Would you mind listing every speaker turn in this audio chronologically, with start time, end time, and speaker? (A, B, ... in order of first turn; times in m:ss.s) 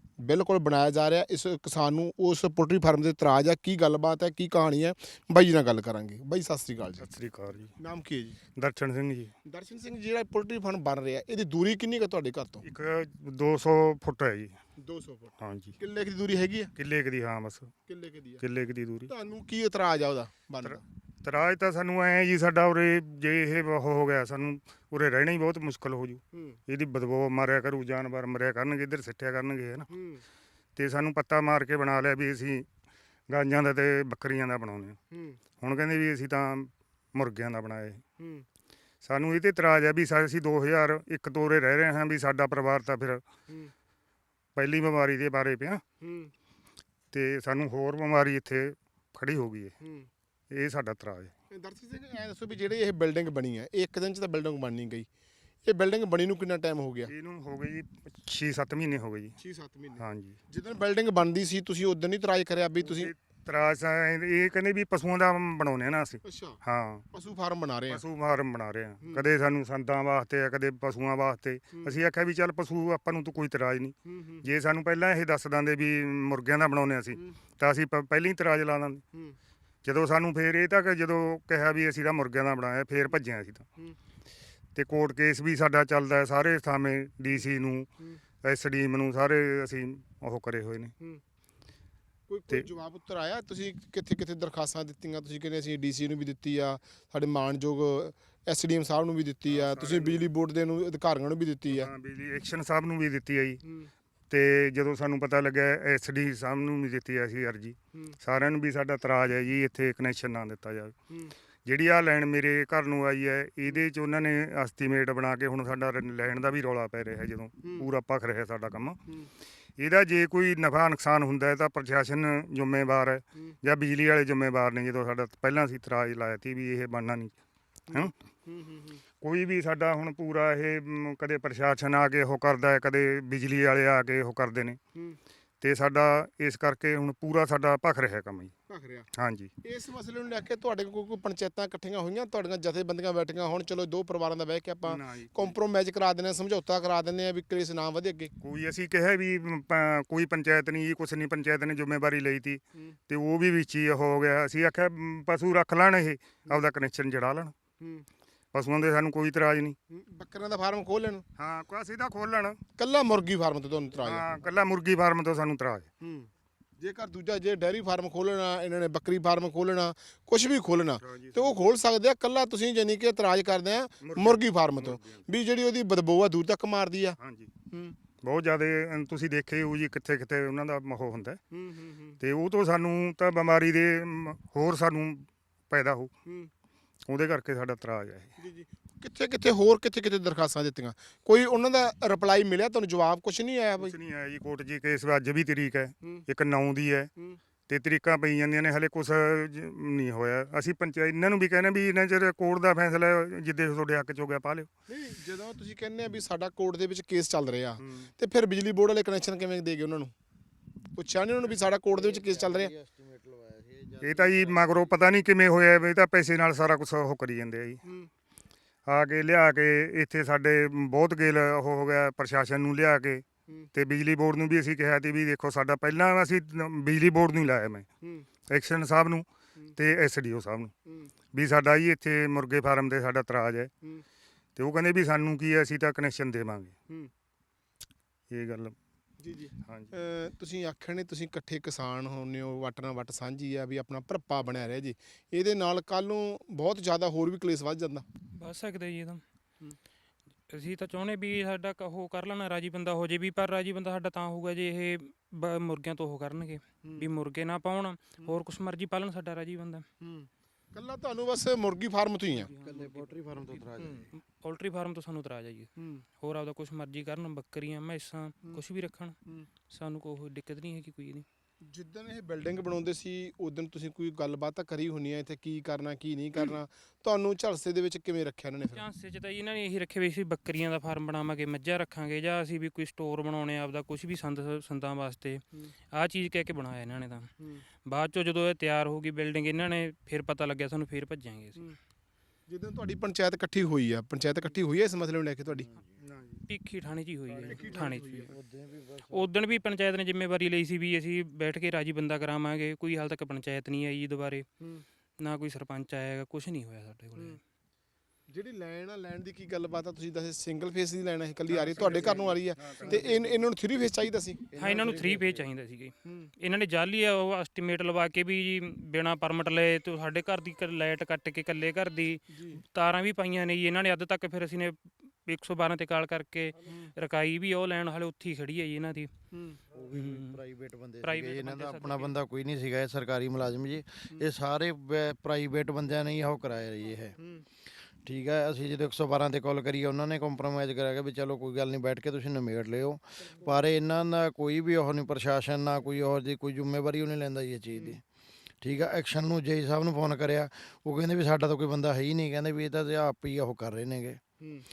0:00.2-0:07.0 A
0:07.0-0:07.7 B
0:07.8-0:08.4 A
0:08.6-0:09.3 B
0:09.4-0:12.6 A
0:12.6-0:14.6 B
0:14.8-0:16.7 A
0:15.4-0:15.7 B
0:16.8-0:17.7 B
0:17.9-0:18.4 A
0:18.4-0:19.1 B
0:19.1-0:20.8 A
0:20.6-0:29.9 B
0:29.9-0:30.2 A
0:30.8-0:32.6 B
0:33.3-0:35.0 B
0:35.1-0:35.4 A
0:35.6-0:38.0 B
0:39.0-0:43.2 B
0:44.6-0:45.8 B
0:46.0-0:46.3 A
0:47.1-0:49.7 B
0:49.8-0:50.1 A
0:50.5-0:51.3 B
0:51.5-0:55.1 A
0:55.6-0:57.1 A
0:57.1-0:59.3 B
0:59.4-1:03.1 A
1:00.0-1:00.4 B
1:02.8-1:07.1 B
1:06.2-1:06.6 A
1:07.1-1:08.0 A
1:07.9-1:19.0 B
1:14.1-1:14.4 A
1:19.8-1:23.7 B
1:24.7-1:27.9 B
1:28.4-1:30.9 B
1:32.3-1:41.9 A
1:39.5-1:40.2 B
1:41.7-1:43.6 B
1:44.3-1:50.9 B
1:51.6-1:59.0 B
1:59.8-2:07.3 B
2:07.9-2:09.0 A
2:09.2-2:14.8 B
2:15.6-2:18.5 B
2:18.7-2:19.1 A
2:19.1-2:19.5 B
2:19.6-2:28.3 A
2:24.8-2:25.5 B
2:28.4-2:37.5 B
2:38.5-2:39.8 B
2:39.9-2:41.2 A
2:41.4-2:42.6 B
2:42.8-2:44.4 A
2:44.0-2:45.9 B
2:46.0-2:46.3 A
2:46.8-2:57.2 A
2:51.0-2:51.6 B
2:54.0-2:55.2 B
2:57.2-2:57.5 B
2:58.2-3:01.4 B
3:01.5-3:02.2 A
3:02.2-3:06.1 B
3:07.1-3:08.3 B
3:08.4-3:13.9 A
3:13.8-3:17.1 B
3:17.7-3:24.7 B
3:24.9-3:30.1 A
3:27.8-3:28.1 B
3:30.9-3:32.7 A
3:31.5-3:34.9 C
3:34.0-3:37.8 B
3:38.9-3:47.8 B
3:48.5-3:50.7 B
3:51.3-3:53.7 B
3:54.6-3:56.7 B
3:58.3-3:58.8 B
3:59.2-4:08.0 A
3:59.6-3:59.9 B
4:08.3-4:09.2 D
4:10.5-4:19.8 D
4:20.0-4:22.5 A
4:22.6-4:24.0 C
4:24.4-4:25.7 D
4:26.2-4:29.2 D
4:29.7-4:31.2 D
4:31.7-4:38.8 A
4:38.7-4:47.3 D
4:47.8-4:51.7 D
4:52.5-4:55.7 A
4:55.6-4:55.9 C
4:56.5-4:58.3 D
4:57.5-4:58.3 A
4:58.3-4:59.3 C
4:59.1-5:04.4 D
5:05.2-5:07.4 D
5:08.3-5:14.8 A
5:14.5-5:29.1 D
5:14.6-5:15.3 C
5:22.3-5:22.6 A
5:29.3-5:29.6 A
5:29.7-5:37.2 C
5:30.0-5:30.4 D
5:31.0-5:32.1 D
5:38.0-5:48.0 C
5:48.6-5:54.2 C